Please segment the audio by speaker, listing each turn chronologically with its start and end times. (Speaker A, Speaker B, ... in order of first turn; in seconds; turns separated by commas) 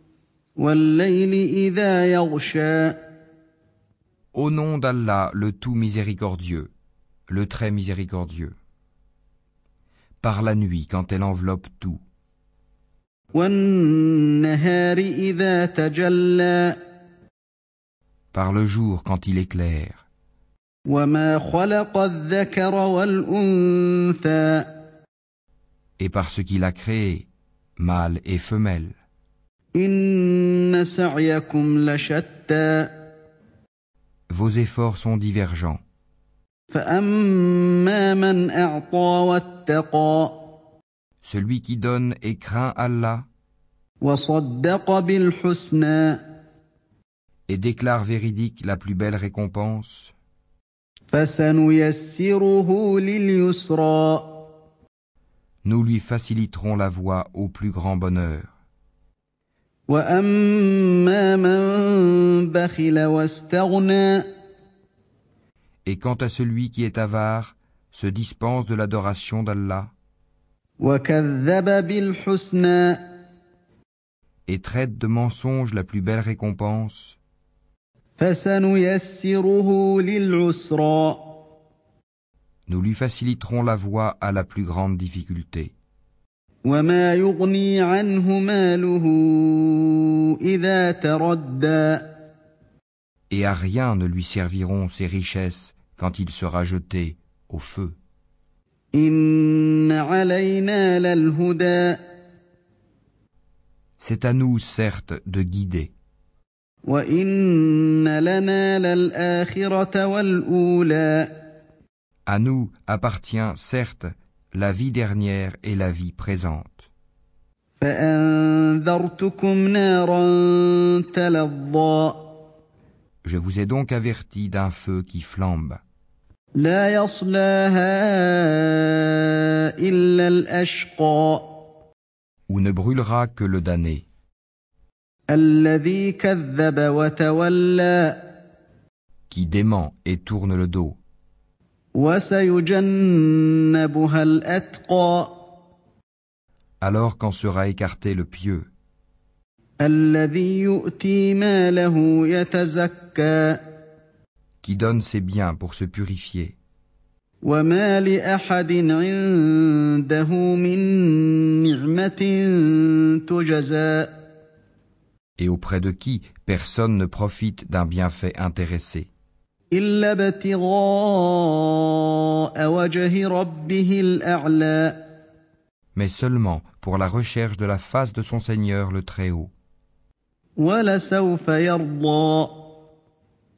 Speaker A: 0.6-3.0, Speaker B: 4.3-6.7, Speaker B: 7.3-8.5, Speaker B: 10.2-12.0, Speaker A: 13.3-16.8, Speaker B: 18.3-20.1, Speaker A: 20.9-24.7, Speaker B: 26.0-27.3, Speaker B: 27.8-28.9, Speaker A: 29.8-32.9, Speaker B: 34.3-35.8, Speaker A: 36.7-40.5, Speaker B: 41.2-43.3, Speaker A: 44.0-46.2, Speaker B: 47.5-50.1, Speaker A: 51.1-54.4, Speaker B: 55.6-58.5, Speaker A: 59.9-64.3, Speaker B: 65.8-69.9, Speaker A: 70.8-73.0, Speaker B: 74.5-77.2, Speaker A: 78.2-81.3, Speaker B: 82.7-85.7, Speaker A: 86.7-92.1, Speaker B: 93.3-98.0, Speaker A: 98.9-102.0, Speaker B: 104.0-105.9, Speaker A: 106.9-111.3, Speaker B: 112.3-116.9, Speaker A: 117.8-122.3, Speaker B: 123.2-125.8, Speaker A: 126.6-131.5, Speaker B: 132.5-134.0, Speaker A: 135.3-138.2, Speaker B: 139.3-141.0, Speaker A: 141.9-145.4, Speaker B: 146.8-148.7, Speaker A: 149.8-153.6, Speaker B: 154.6-156.6, Speaker A: 157.4-164.1, Speaker B: 165.4-169.1, Speaker A: 169.7-175.0, Speaker B: 175.9-179.5, Speaker A: 180.6-182.7